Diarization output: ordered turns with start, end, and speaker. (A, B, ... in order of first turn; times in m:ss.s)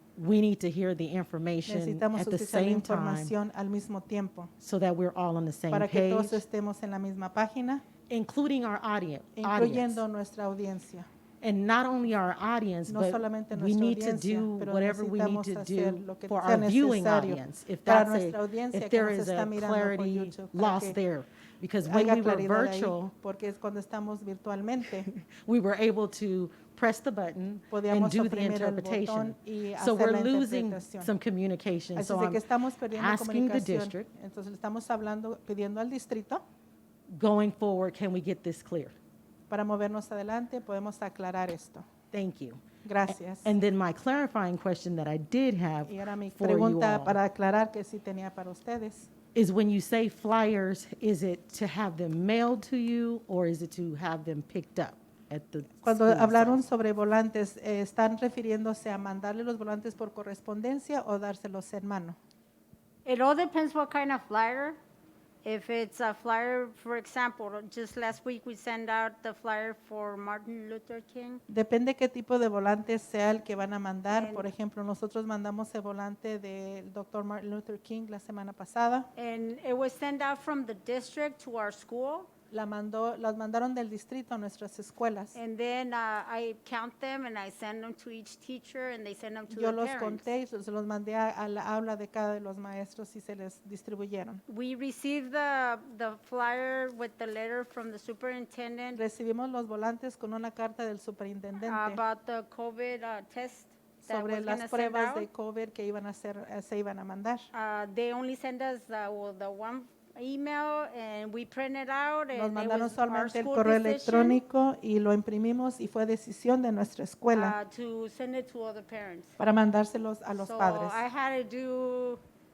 0:00.2-0:03.3 A
0:01.7-0:04.5 B
0:04.6-0:06.4 A
0:05.7-0:07.8 B
0:08.1-0:10.0 A
0:09.4-0:11.1 B
0:11.4-0:23.1 A
0:12.9-0:21.0 B
0:21.8-0:25.1 B
0:25.3-0:32.4 A
0:27.7-0:31.1 B
0:32.0-0:36.4 B
0:32.9-0:34.1 A
0:37.1-0:39.0 A
0:39.5-0:41.8 B
0:42.1-0:47.2 A
0:42.8-0:43.5 B
0:45.8-0:49.1 B
0:49.3-0:56.6 A
0:55.8-1:02.2 B
1:03.0-1:04.8 C
1:05.4-1:11.4 C
1:11.5-1:19.1 B
1:14.1-1:14.5 C
1:19.2-1:22.3 C
1:22.5-1:25.4 B
1:25.3-1:30.3 C
1:29.5-1:34.4 B
1:34.5-1:39.0 C
1:39.0-1:42.0 B
1:41.6-1:45.3 C
1:44.0-1:47.5 B
1:47.5-1:54.4 C
1:52.3-1:57.6 B
1:57.3-1:59.3 C
1:59.4-2:01.0 B
2:00.3-2:02.2 C